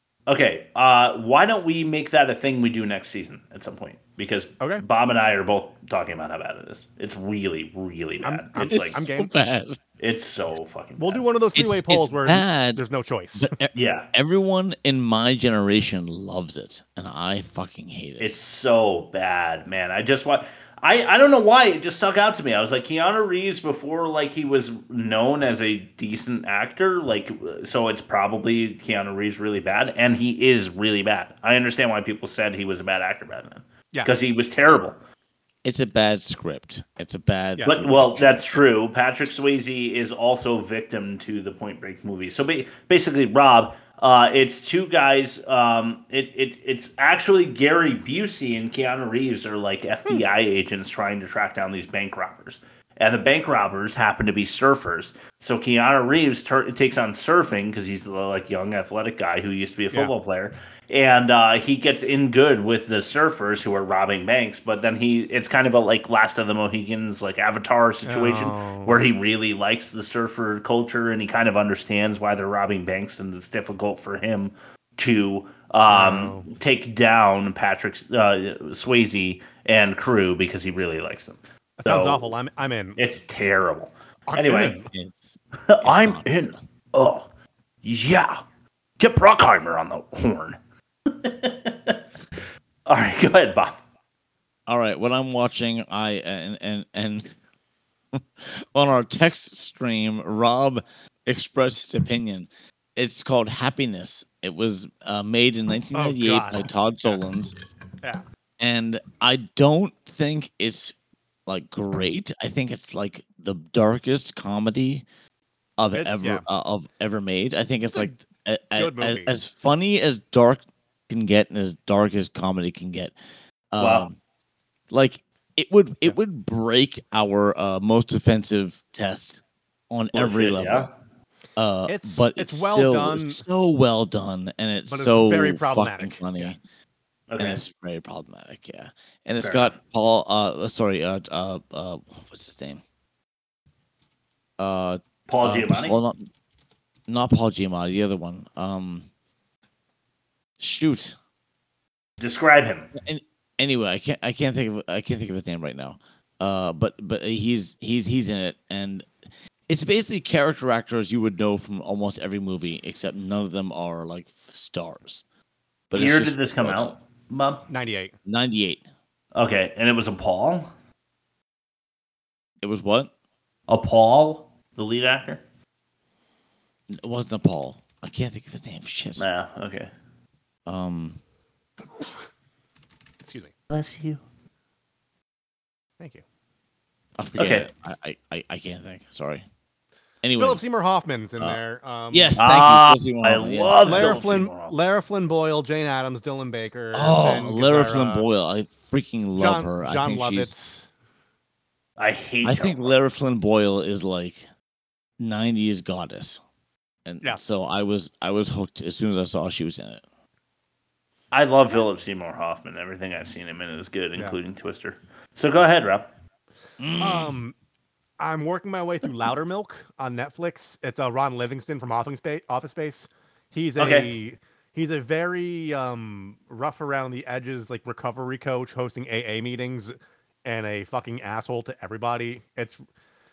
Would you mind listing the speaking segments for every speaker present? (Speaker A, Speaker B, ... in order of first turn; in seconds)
Speaker A: 0.3-9.0, 10.0-11.2, 13.7-14.1, 18.2-35.0, 37.6-82.3, 83.0-84.8, 85.7-87.3, 87.8-88.4, 89.0-90.6, 91.2-92.0, 92.9-93.8, 123.8-124.1, 130.1-130.9, 137.3-137.6, 139.4-139.7, 145.3-146.0, 152.2-152.9, 165.9-167.6, 169.3-170.7, 173.7-175.4, 179.2-179.9, 183.7-184.2, 187.4-187.7, 192.4-194.8, 202.0-202.9, 211.3-216.1, 223.8-224.1
Speaker B: 8.2-9.3, 11.0-13.5, 68.0-69.0, 75.9-76.5, 81.8-83.0, 84.3-84.9, 105.9-107.2, 115.9-116.4, 117.9-118.2, 118.7-119.3, 131.9-133.4, 134.9-136.5, 167.7-168.1, 183.2-183.5, 190.4-192.3, 193.8-198.3, 199.3-200.9, 217.0-217.6, 218.2-232.8
Speaker C: 8.7-9.8, 11.5-12.8, 13.3-18.4, 35.6-38.6, 84.9-86.6, 94.7-97.3, 98.1-107.5, 108.6-110.9, 111.5-115.0, 115.8-123.1, 123.7-124.2, 124.9-130.9, 131.6-136.6, 137.4-142.8, 144.6-146.3, 147.1-149.1, 150.6-151.2, 152.9-159.1, 159.7-165.2, 165.9-166.9, 168.2-168.8, 172.6-173.1, 176.9-179.3, 180.7-181.2, 187.2-189.4, 190.2-190.6, 192.1-194.2, 196.9-200.5, 202.4-204.5, 205.2-206.4, 207.0-210.0, 216.8-217.3